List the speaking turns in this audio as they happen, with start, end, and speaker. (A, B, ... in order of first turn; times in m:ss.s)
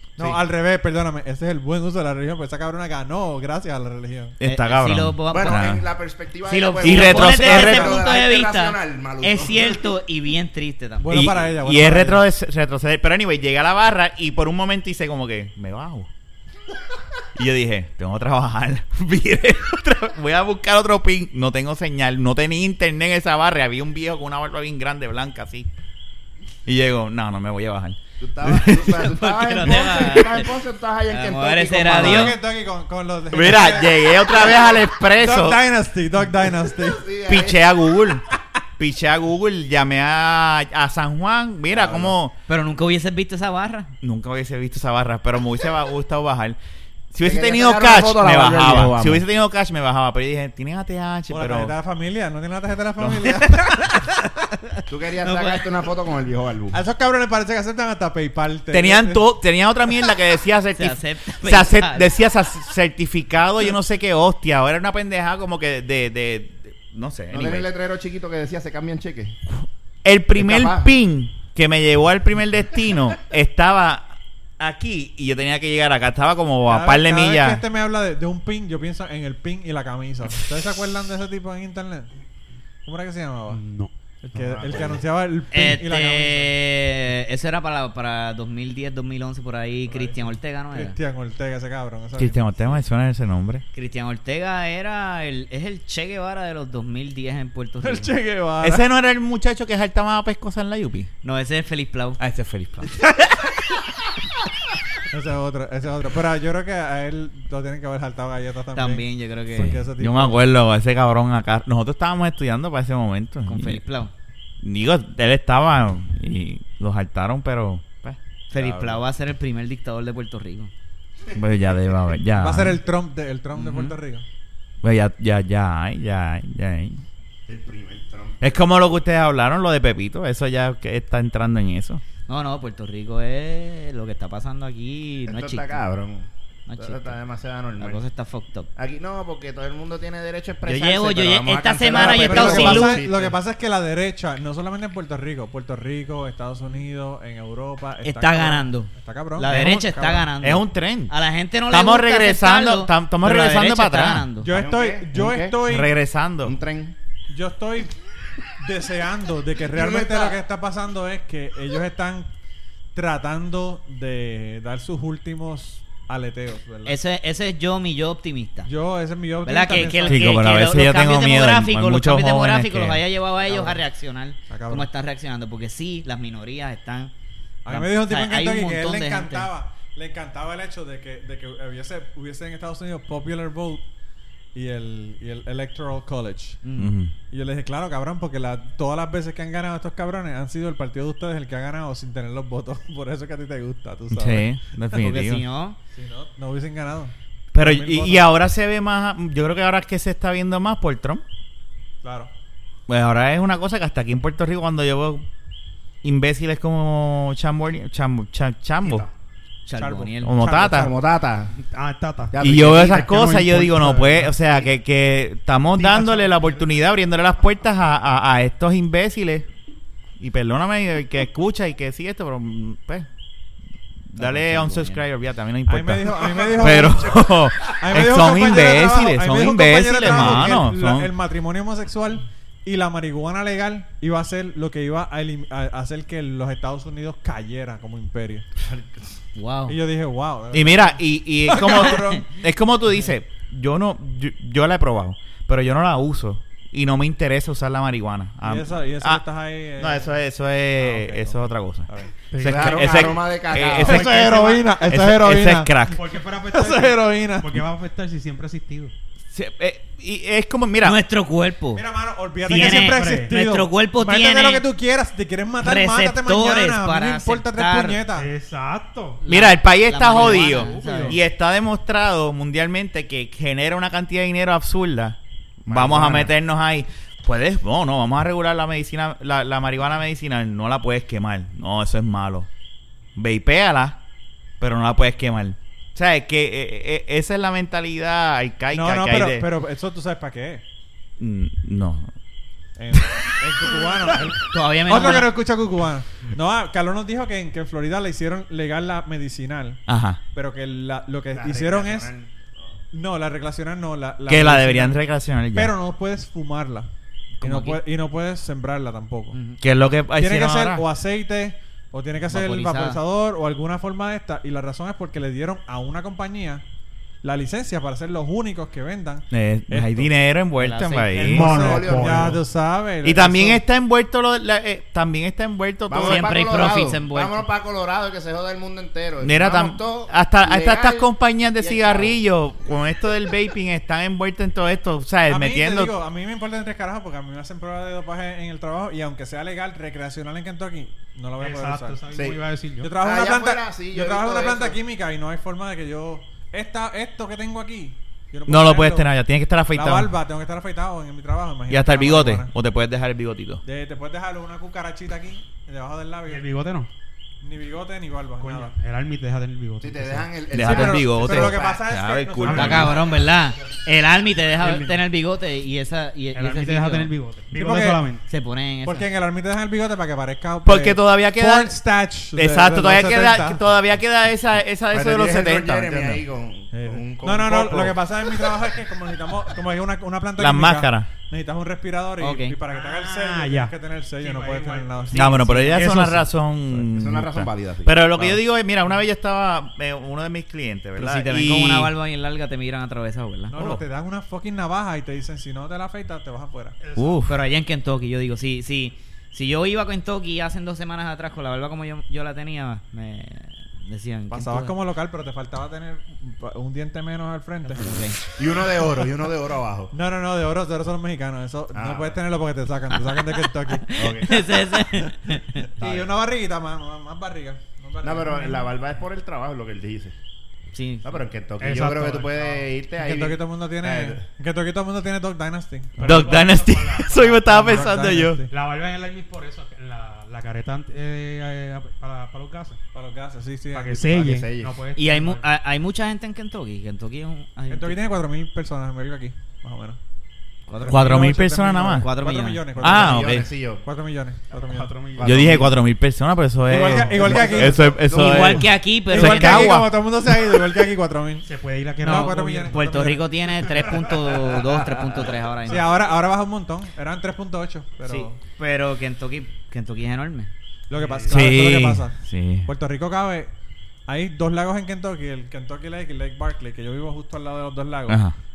0:00.2-0:04.4 A
0:04.4-0:05.8 B
0:04.4-0:05.8 C
0:05.3-0:09.8 D
0:06.5-0:11.2 C
0:06.8-0:08.0 B
0:07.6-0:08.1 A
0:11.0-0:12.2 A
0:11.1-0:16.1 B
0:17.4-0:25.7 B
0:26.7-0:28.8 B
0:28.2-0:32.4 D
0:28.5-0:30.5 C
0:31.1-0:32.4 C
0:31.9-0:37.0 A
0:33.3-0:35.6 B
0:36.8-0:37.8 D
0:37.3-0:42.4 B
0:41.7-0:42.2 D
0:42.5-0:43.9 C
0:44.0-0:46.6 B
0:47.1-0:51.7 B
0:47.2-0:49.2 D
0:51.3-0:54.1 A
0:53.0-0:53.4 B
0:54.9-0:56.8 D
0:55.2-0:55.6 C
0:56.7-0:59.2 A
0:58.7-1:07.7 B
1:00.7-1:02.1 C
1:07.3-1:09.4 D
1:10.0-1:17.6 B
1:10.4-1:10.9 D
1:16.7-1:22.1 A
1:22.8-1:23.6 A
1:23.5-1:24.9 E
1:24.2-1:26.5 A
1:25.5-1:31.0 C
1:29.9-1:32.8 A
1:32.2-1:33.6 B
1:33.7-1:38.2 C
1:37.8-1:38.9 A
1:38.6-1:41.1 B
1:41.2-1:42.2 C
1:42.2-1:43.5 B
1:45.1-1:50.4 A
1:48.8-1:49.8 C
1:49.6-1:53.8 B
1:53.5-1:54.1 C
1:54.6-1:59.0 B
1:58.5-2:00.7 C
2:01.4-2:02.8 B
2:02.4-2:04.2 A
2:03.6-2:04.0 C
2:04.8-2:07.0 B
2:07.5-2:08.6 D
2:08.4-2:12.0 B
2:12.3-2:15.8 C
2:15.3-2:18.0 D
2:16.7-2:17.2 C
2:17.8-2:18.7 C
2:18.8-2:23.4 D
2:20.7-2:23.0 C
2:21.9-2:30.3 A
2:28.0-2:34.5 C
2:29.5-2:29.8 B
2:30.4-2:31.1 B
2:31.7-2:34.3 B
2:34.4-2:35.9 A
2:34.5-2:35.6 D
2:35.6-2:36.6 B
2:36.4-2:37.0 D
2:37.3-2:37.9 A
2:38.6-2:42.3 A
2:39.7-2:40.4 D
2:43.0-2:47.0 A
2:46.8-2:48.7 C
2:48.7-2:50.5 A
2:49.4-2:57.1 C
2:50.1-2:53.0 B
2:53.4-2:53.8 A
2:54.5-2:54.9 A
2:57.6-3:03.8 A
2:57.7-2:59.5 C
3:04.6-3:06.6 A
3:06.6-3:06.9 C
3:06.8-3:07.1 B
3:07.3-3:14.5 A
3:14.1-3:15.4 B
3:14.9-3:15.8 C
3:15.9-3:18.3 A
3:17.5-3:21.2 B
3:22.0-3:22.3 A
3:22.9-3:25.2 B
3:26.0-3:29.1 B
3:29.7-3:30.4 C
3:29.8-3:30.9 A
3:30.2-3:30.9 B
3:30.5-3:31.6 D
3:31.6-3:34.4 E
3:32.3-3:33.2 D
3:32.4-3:39.5 B
3:35.8-3:36.7 A
3:40.2-3:43.1 B
3:44.1-3:51.1 B
3:44.2-3:45.0 C
3:45.7-3:58.5 A
3:58.7-3:59.0 D
3:59.4-3:59.8 C
3:59.7-4:02.4 A
4:00.5-4:09.2 B
4:08.4-4:10.2 A
4:09.8-4:16.0 B
4:10.8-4:12.1 A
4:12.3-4:13.1 E
4:12.4-4:14.1 D
4:13.8-4:15.8 A
4:14.0-4:14.8 E
4:15.9-4:18.9 E
4:16.5-4:17.6 A
4:19.3-4:21.0 B
4:20.8-4:21.8 C
4:21.8-4:28.3 A
4:22.4-4:23.3 E
4:22.4-4:24.6 C
4:25.6-4:28.0 C
4:28.1-4:29.2 E
4:29.2-4:31.2 C
4:29.3-4:42.5 B
4:30.1-4:31.2 E
4:35.6-4:36.3 D
4:43.2-4:44.0 B
4:44.6-4:49.5 B
4:48.7-4:50.6 A
4:51.2-4:52.1 B
4:52.8-4:59.8 A
4:54.5-4:55.3 C
4:59.9-5:00.2 B
5:00.3-5:02.1 A
5:01.3-5:02.3 D
5:02.9-5:05.0 A
5:04.3-5:05.7 B
5:05.5-5:06.9 A
5:07.4-5:07.8 C
5:07.4-5:09.4 A
5:09.3-5:09.6 C
5:09.6-5:10.8 B
5:10.2-5:16.6 A
5:12.3-5:13.0 C
5:17.2-5:20.1 A
5:19.3-5:21.6 B
5:20.6-5:21.3 C
5:21.1-5:23.6 A
5:21.2-5:22.4 E
5:21.4-5:22.4 D
5:23.0-5:26.3 B
5:25.9-5:32.2 D
5:26.0-5:27.4 C
5:29.2-5:35.9 B
5:35.3-5:42.0 A
5:41.4-5:43.0 E
5:42.1-5:42.4 D
5:42.8-5:49.1 A
5:43.0-5:44.8 D
5:48.5-5:50.1 B
5:49.7-5:52.5 A
5:51.7-5:53.6 B
5:53.6-5:56.4 A
5:56.3-5:56.9 E
5:57.4-5:58.7 A
5:58.4-6:00.3 E
5:59.8-6:01.8 D
6:00.5-6:03.0 B
6:00.6-6:03.0 A
6:02.4-6:02.9 E
6:02.5-6:07.1 C
6:04.6-6:05.0 A
6:06.4-6:08.2 E
6:07.5-6:08.0 A
6:08.3-6:09.1 C
6:08.8-6:13.6 A
6:10.6-6:11.8 B
6:12.4-6:16.2 B
6:14.9-6:18.0 D
6:16.7-6:26.2 A
6:20.4-6:21.1 B
6:22.2-6:22.6 C
6:22.7-6:26.3 E
6:25.1-6:31.9 B
6:26.9-6:28.0 D
6:31.0-6:33.6 C
6:33.5-6:36.8 A
6:33.6-6:33.8 B
6:36.8-6:37.2 E
6:37.0-6:37.4 B
6:37.3-6:44.8 C
6:44.3-6:48.0 A
6:47.7-6:48.2 C
6:48.4-6:49.9 D
6:49.9-6:58.7 A
6:51.7-6:52.2 D
6:53.0-6:55.7 C
6:54.0-6:54.4 D
6:55.8-6:56.1 D
6:58.0-7:00.2 D
7:00.7-7:01.2 C
7:01.0-7:04.2 D
7:01.6-7:02.7 E
7:03.0-7:06.6 A
7:06.0-7:08.4 B
7:06.0-7:07.9 E
7:07.3-7:08.5 A
7:08.5-7:12.8 E
7:12.9-7:14.2 A
7:13.7-7:15.5 E
7:14.1-7:14.8 D
7:15.0-7:18.0 C
7:17.7-7:20.0 A
7:20.7-7:21.2 C
7:20.7-7:25.1 A
7:20.9-7:22.1 B
7:22.0-7:22.7 C
7:22.8-7:23.5 B
7:22.8-7:23.8 D
7:24.5-7:25.6 E
7:25.2-7:25.8 D
7:25.2-7:30.0 B
7:26.7-7:31.5 A
7:27.1-7:28.4 D
7:27.2-7:29.8 C
7:31.4-7:32.8 E
7:32.0-7:33.3 A
7:32.1-7:35.9 C
7:33.6-7:34.5 E
7:34.5-7:38.4 A
7:38.0-7:40.5 C
7:40.9-7:43.5 A
7:41.0-7:41.5 E
7:41.3-7:42.7 B
7:44.1-7:48.2 A
7:48.1-7:48.4 B